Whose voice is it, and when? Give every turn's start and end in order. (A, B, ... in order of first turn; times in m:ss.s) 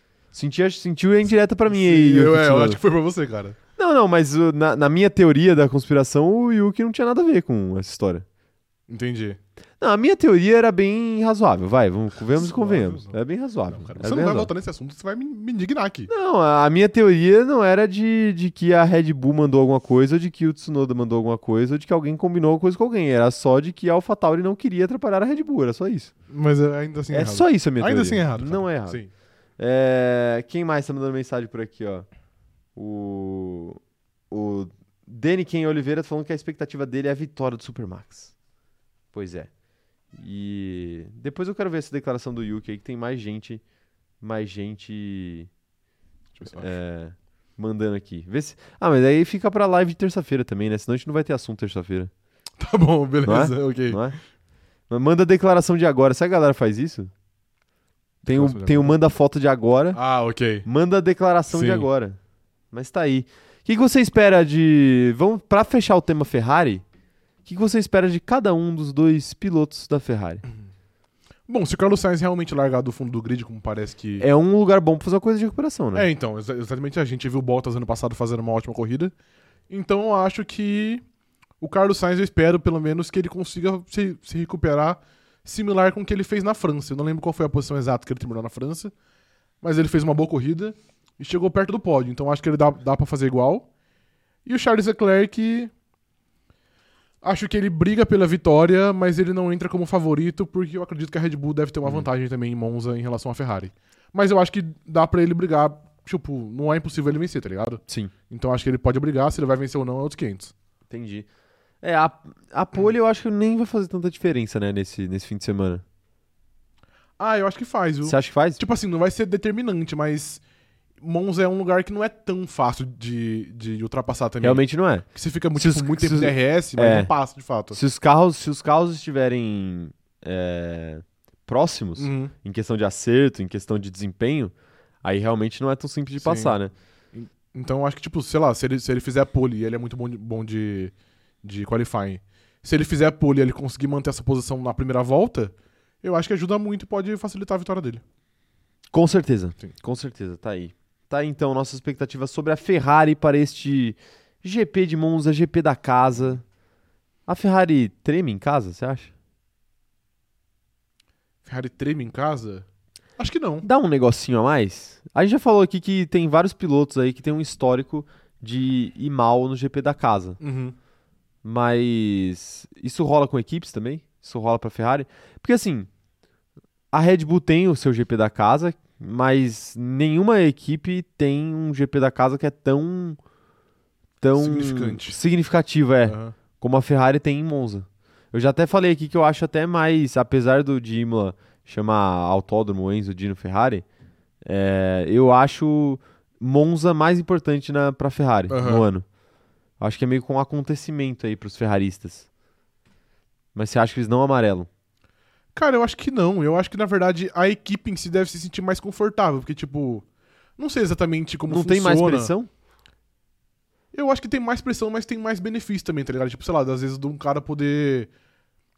0:00.3-0:02.8 A
0:01.7-0:03.6 B
0:03.8-0:08.2 A
0:08.9-0:09.4 B
0:09.8-0:14.5 A
0:12.3-0:13.2 B
0:13.7-0:16.1 B
0:16.1-0:26.1 A
0:26.3-0:29.1 B
0:27.1-0:29.0 A
0:29.6-0:32.1 A
0:32.8-0:33.8 A
0:34.3-0:38.3 A
0:39.1-0:39.5 A
0:40.1-0:43.6 A
0:44.2-0:45.5 A
0:46.3-0:46.7 B
0:46.5-0:52.1 A
0:52.6-0:54.0 B
0:53.2-0:54.2 A
0:54.9-0:57.1 A
0:58.2-1:00.0 A
0:58.3-0:59.0 B
0:59.9-1:00.7 B
1:00.6-1:02.2 A
1:01.5-1:01.9 B
1:02.7-1:06.8 A
1:07.4-1:10.4 A
1:11.5-1:14.2 B
1:14.2-1:16.1 A
1:15.9-1:19.1 B
1:19.7-1:21.0 B
1:21.6-1:28.9 B
1:29.6-1:33.7 B
1:34.4-1:35.7 B
1:37.2-1:50.5 B
1:50.9-1:51.3 A
1:51.8-1:55.8 A
1:57.2-2:00.4 B
1:58.0-1:58.6 A
2:01.0-2:07.8 B
2:04.4-2:07.1 A
2:07.7-2:14.5 A
2:12.0-2:12.3 B
2:15.0-2:16.7 A
2:16.2-2:16.6 B
2:17.1-2:28.0 B
2:28.9-2:36.4 A
2:37.3-2:39.1 A
2:41.4-2:42.6 B
2:43.2-2:43.6 B
2:43.6-2:50.4 A
2:50.4-2:50.8 B
2:51.4-2:55.9 A
2:56.9-3:03.2 A
3:04.2-3:13.8 A
3:04.4-3:05.2 B
3:06.0-3:06.4 B
3:14.4-3:19.0 A
3:18.5-3:18.8 B
3:19.8-3:22.3 A
3:23.5-3:24.7 A
3:25.5-3:30.0 B
3:30.6-3:32.3 B
3:31.5-3:32.5 A
3:33.9-3:38.1 B